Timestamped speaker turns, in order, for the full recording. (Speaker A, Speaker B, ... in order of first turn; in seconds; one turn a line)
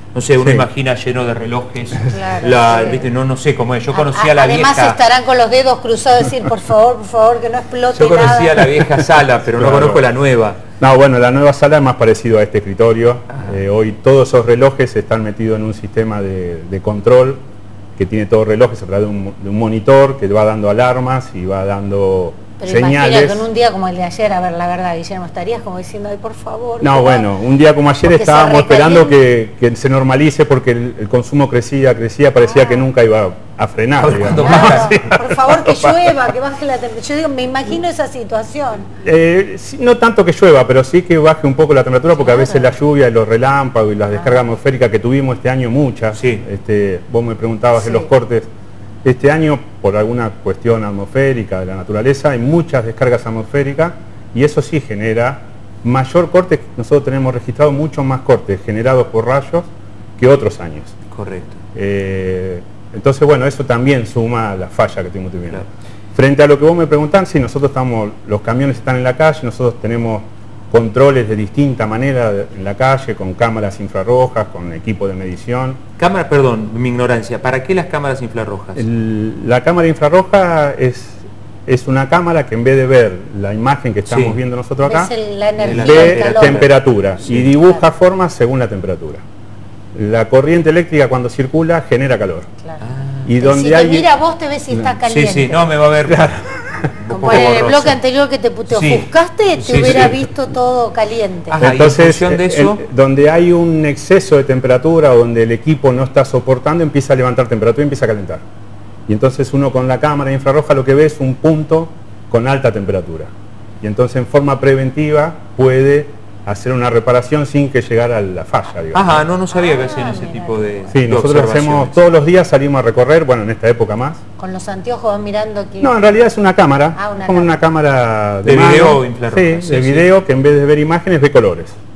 Speaker A: 0.1-5.0
Speaker B: 0.4-0.7
Speaker C: 2.1-3.1
Speaker C: 3.9-8.7
Speaker A: 7.9-10.6
Speaker B: 9.5-10.0
Speaker B: 10.8-17.4
Speaker B: 18.0-23.5
Speaker C: 22.6-27.3
Speaker B: 26.8-36.2
Speaker C: 28.1-29.2
Speaker C: 32.5-32.9
Speaker A: 34.0-35.0
Speaker C: 34.3-38.9
Speaker B: 39.0-48.5
Speaker C: 42.2-42.7
Speaker A: 46.2-46.4
Speaker C: 47.8-48.1
Speaker B: 49.0-61.0
Speaker A: 61.1-61.6
Speaker B: 61.8-75.8
Speaker A: 76.0-78.9
Speaker B: 78.8-85.1
Speaker A: 84.1-84.4
Speaker C: 84.8-86.7
Speaker A: 85.6-86.7
Speaker B: 85.7-89.2
Speaker A: 87.2-87.5
Speaker B: 90.0-92.5
Speaker A: 92.8-93.3
Speaker B: 93.3-94.1
Speaker C: 93.3-95.6
Speaker A: 95.0-96.3
Speaker B: 96.1-97.4
Speaker A: 97.0-98.0
Speaker C: 97.1-101.6
Speaker A: 98.7-100.2
Speaker A: 101.5-102.8
Speaker B: 101.6-108.4
Speaker B: 109.1-119.3
Speaker A: 118.9-122.0
Speaker C: 119.5-121.0
Speaker B: 120.9-124.2
Speaker C: 124.4-126.1
Speaker B: 125.8-131.8
Speaker C: 127.0-127.6
Speaker A: 128.4-130.1